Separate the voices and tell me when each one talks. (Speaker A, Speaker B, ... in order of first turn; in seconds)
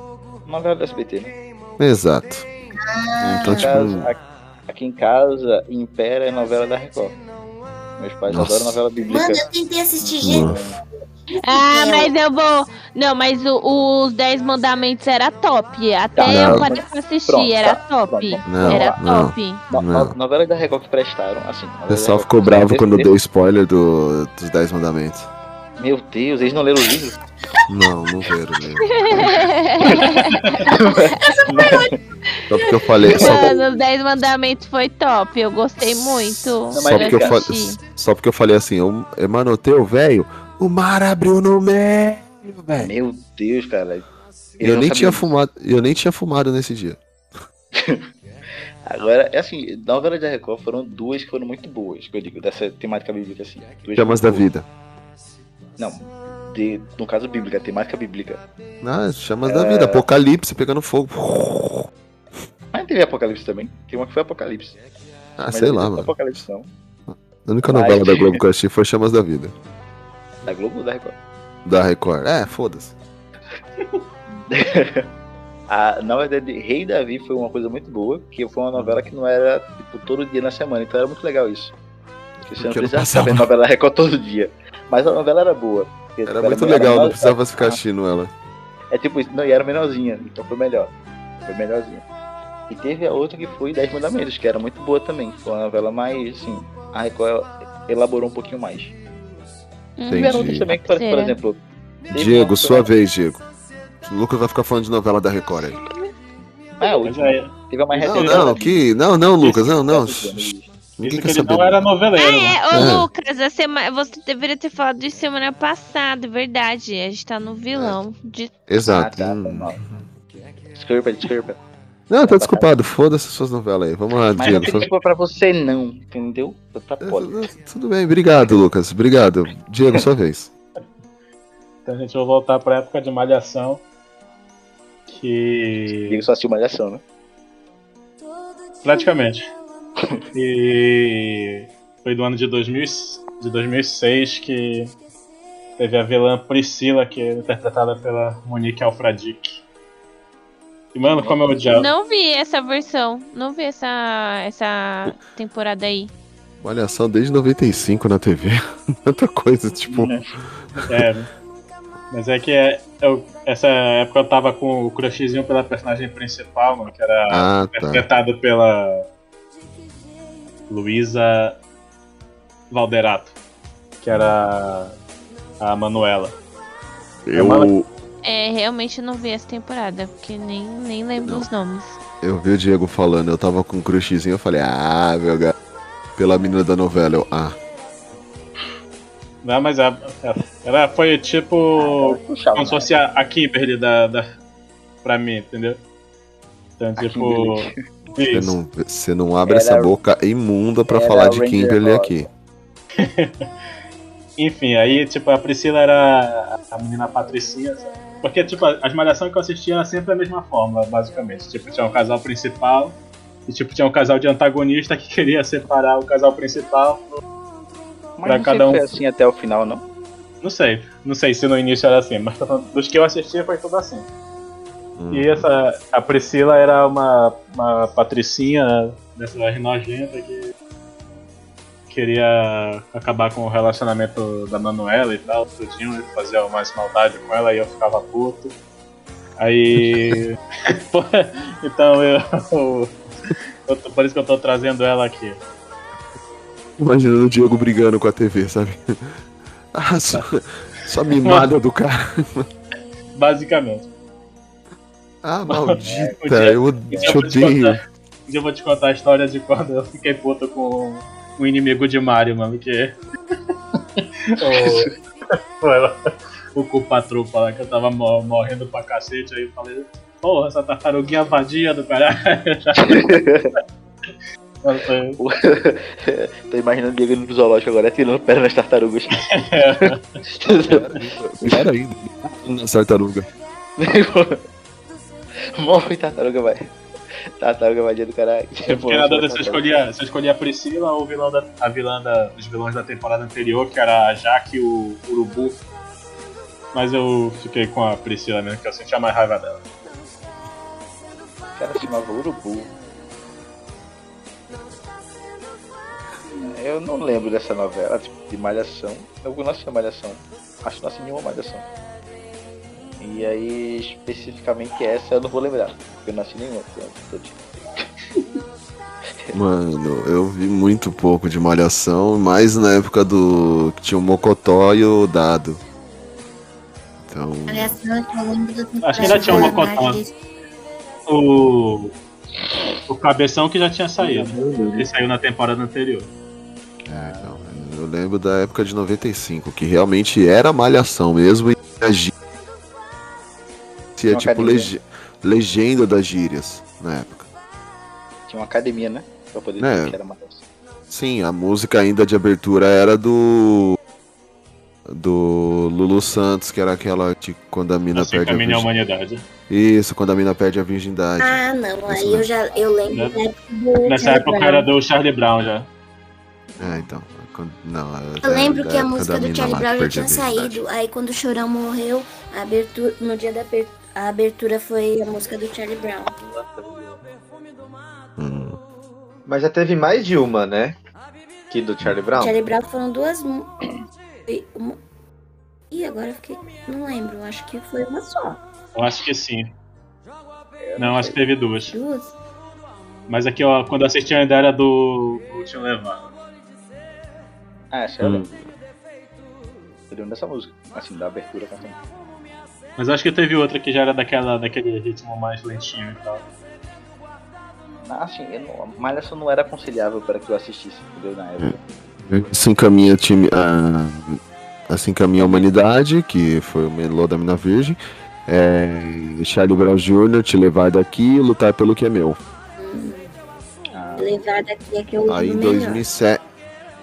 Speaker A: 0.5-1.3, 3.4-7.2, 8.0-9.5, 10.0-10.8, 16.1-19.0, 19.7-23.1, 25.8-27.1, 29.9-31.9, 33.1-33.5, 36.7-37.4, 42.8-45.3, 47.7-48.0, 48.8-54.4, 55.8-58.4, 59.4-60.0, 62.7-64.8, 65.5-66.7, 67.7-68.4, 70.5-71.2, 74.4-75.1, 75.7-81.7, 82.5-87.8, 88.9-90.9, 91.4-92.0, 92.7-98.9, 100.1-102.9, 106.8-108.8, 109.5-110.7, 118.8-119.8, 120.7-121.6, 122.2-122.7, 124.3-127.4, 136.0-137.0, 151.1-151.7, 159.9-160.3, 191.8-193.0, 197.0-197.8, 199.4-199.9, 200.9-202.3, 218.2-219.8, 255.8-257.3, 264.4-264.9, 272.8-273.5, 275.2-280.9, 281.4-281.7, 283.8-284.4, 285.6-286.7, 287.4-289.8, 301.6-302.7, 306.4-311.6, 313.0-317.9, 334.0-334.8, 336.9-337.5, 344.1-344.7, 348.3-350.4, 390.6-391.1, 397.7-398.3, 399.9-401.8, 407.9-411.6, 423.7-424.1
Speaker B: 1.8-2.5, 3.2-4.1, 8.3-8.8, 10.2-10.6, 16.2-16.7, 18.4-20.1, 21.9-25.3, 27.7-29.4, 32.5-33.5, 35.8-42.9, 44.6-47.0, 53.9-54.7, 58.8-61.9, 65.4-66.4, 67.1-69.5, 71.6-72.9, 78.7-79.0, 82.5-83.5, 86.2-88.3, 100.1-100.7, 102.1-103.4, 104.0-105.8, 108.0-111.8, 112.7-113.1, 118.7-119.8, 122.1-124.9, 127.0-130.5, 156.6-160.1, 160.8-161.1, 167.3-168.1, 177.3-177.9, 182.2-185.5, 186.2-187.6, 198.3-202.3, 225.0-225.5, 239.8-240.2, 246.8-249.2, 249.7-252.5, 255.2-257.8, 280.6-283.3, 319.3-325.6, 327.1-327.7, 329.0-329.6, 336.8-342.1, 344.0-347.3, 349.6-350.0, 350.9-353.8, 354.9-358.7, 359.5-362.3, 366.6-370.6, 378.2-378.6, 398.0-398.4, 412.1-422.2, 425.1-426.2
Speaker C: 2.7-3.7, 9.1-10.6, 11.3-12.1, 31.2-31.9, 327.5-330.1, 361.2-364.7, 368.2-376.1, 382.1-383.5, 384.3-384.8, 385.7-388.4, 391.7-392.1, 422.6-423.1, 424.0-425.8
Speaker D: 11.4-19.6, 28.9-31.8, 33.0-37.8, 100.0-101.4, 112.2-118.5, 151.7-156.1, 178.2-182.0
Speaker E: 106.8-107.5, 111.0-112.6, 124.4-124.8, 131.8-133.8, 135.1-136.2, 138.8-139.4, 140.3-144.9, 145.8-149.6, 150.9-151.9, 160.9-161.3, 162.1-169.0, 170.7-171.6, 172.7-173.3, 174.0-174.9, 175.6-176.3, 177.3-177.7, 189.4-194.3, 195.0-195.8, 196.8-197.7, 198.2-198.6, 203.0-203.5, 204.4-217.2, 218.2-218.8, 220.4-224.1, 225.1-230.5, 231.9-238.5, 239.4-242.9, 243.7-245.4, 251.2-251.5, 253.2-253.9, 255.5-262.9, 264.0-264.9, 265.6-273.1, 274.6-275.2, 279.2-280.0, 288.7-295.6, 296.7-299.6, 328.8-330.0, 331.1-331.9, 332.9-336.1, 357.9-359.2, 363.8-365.7, 388.7-389.5, 390.8-391.7, 393.1-396.1, 402.8-406.2
Speaker F: 376.1-377.0, 379.2-380.8, 381.5-382.4